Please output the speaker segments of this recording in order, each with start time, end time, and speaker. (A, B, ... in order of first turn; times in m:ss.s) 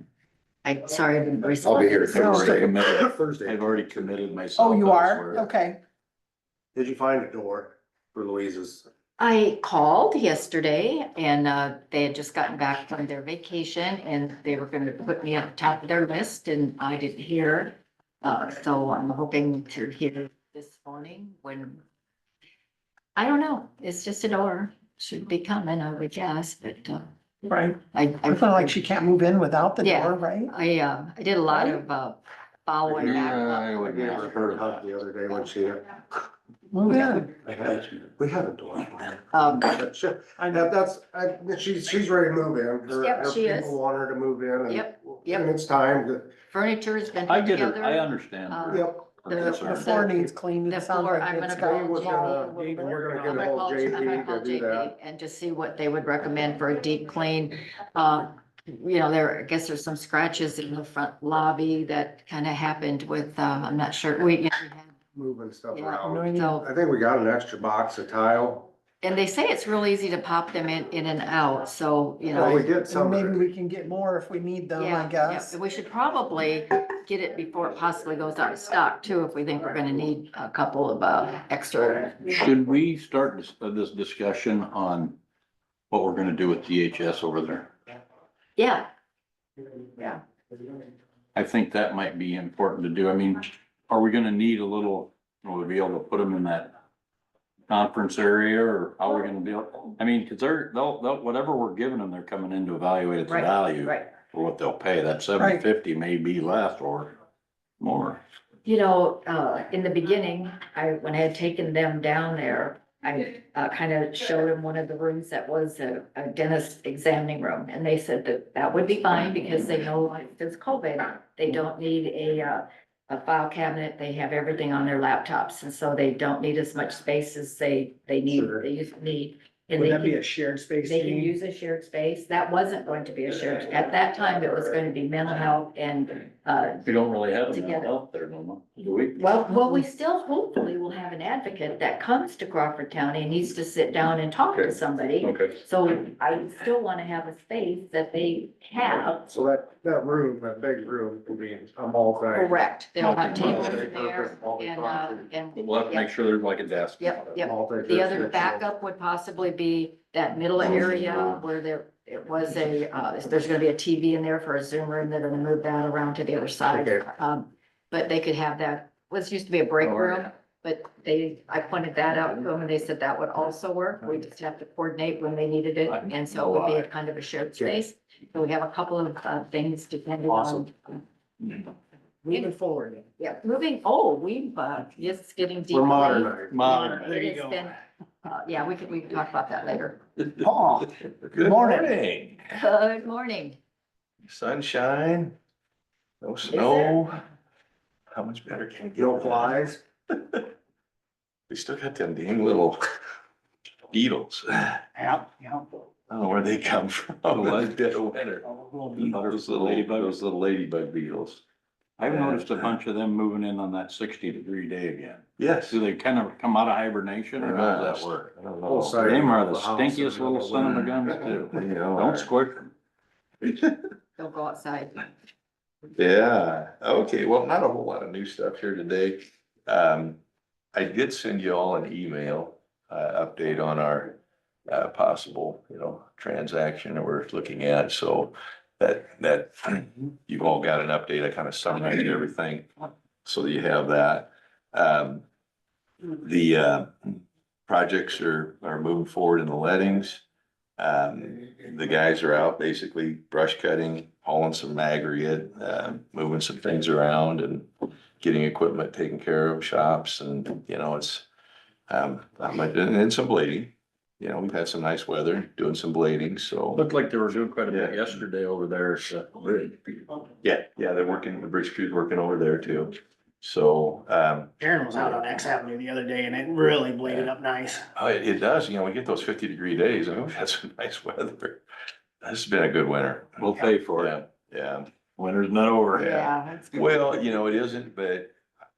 0:00.6-0:02.6 A
0:01.6-0:04.2 B
0:02.1-0:02.5 C
0:02.1-0:05.5 D
0:04.6-0:05.8 C
0:06.7-0:08.9 B
0:09.2-0:21.8 A
0:23.2-0:27.1 A
0:27.4-0:30.5 C
0:27.9-0:28.8 A
0:29.8-0:34.3 A
0:32.9-0:34.8 D
0:32.9-0:36.3 B
0:36.7-0:37.3 C
0:36.9-0:37.3 A
0:37.3-0:46.3 B
0:39.3-0:39.8 A
0:40.4-0:40.7 C
0:42.9-0:43.8 A
0:44.7-0:45.5 A
0:46.5-0:52.7 A
0:47.3-0:50.0 D
0:48.7-0:49.0 B
0:49.4-0:53.5 C
0:51.6-0:54.9 B
0:53.2-1:05.0 A
1:05.1-1:08.7 B
1:05.7-1:06.7 A
1:06.0-1:06.6 C
1:09.0-1:12.7 A
1:12.3-1:15.6 C
1:12.3-1:13.4 B
1:14.8-1:22.3 A
1:22.3-1:25.2 D
1:25.9-1:27.7 D
1:28.6-1:28.9 A
1:31.3-1:36.7 D
1:37.7-1:47.2 D
1:43.3-1:44.1 A
1:45.4-1:45.6 C
1:47.8-1:48.2 D
1:48.6-2:10.2 A
2:08.3-2:08.6 B
2:09.8-2:11.1 C
2:10.8-2:16.9 A
2:16.8-2:19.5 D
2:17.5-2:17.9 A
2:19.2-2:29.2 A
2:24.5-2:25.6 D
2:29.2-2:35.2 B
2:32.3-2:36.1 A
2:33.0-2:33.8 D
2:35.5-2:37.4 D
2:37.0-3:01.6 A
2:37.4-2:38.6 B
2:46.7-2:47.0 B
2:55.9-2:56.8 D
3:00.3-3:00.7 B
3:02.2-3:03.0 B
3:03.2-3:10.0 A
3:05.7-3:06.7 B
3:06.6-3:07.6 E
3:06.7-3:07.1 D
3:10.9-3:12.6 F
3:12.6-3:13.6 A
3:14.3-3:15.4 F
3:16.2-3:17.2 F
3:16.5-3:17.0 A
3:18.1-3:20.5 F
3:18.9-3:19.8 B
3:21.5-3:22.8 F
3:23.9-3:24.8 F
3:25.0-3:25.7 E
3:26.1-3:31.4 F
3:27.3-3:27.7 D
3:28.5-3:28.9 E
3:29.0-3:30.1 D
3:32.0-3:38.3 D
3:32.0-3:32.7 F
3:35.4-3:35.8 F
3:37.4-3:39.1 F
3:38.6-3:41.4 B
3:39.0-3:42.7 D
3:40.6-3:42.3 F
3:43.4-3:43.9 F
3:44.2-3:45.1 A
3:45.9-3:50.2 F
3:50.7-3:54.2 F
3:54.7-4:02.7 F
4:03.2-4:05.2 F
4:06.2-4:10.2 F
4:10.8-4:17.7 F
4:18.2-4:21.3 F
4:21.9-4:26.9 F
4:26.7-4:29.7 D
4:27.7-4:28.1 F
4:30.4-4:34.5 F
4:34.6-4:37.8 E
4:37.0-4:37.3 F
4:38.0-4:41.6 F
4:42.2-4:44.9 F
4:43.4-4:44.2 D
4:45.2-4:46.3 D
4:45.9-4:47.1 A
4:46.1-4:48.3 F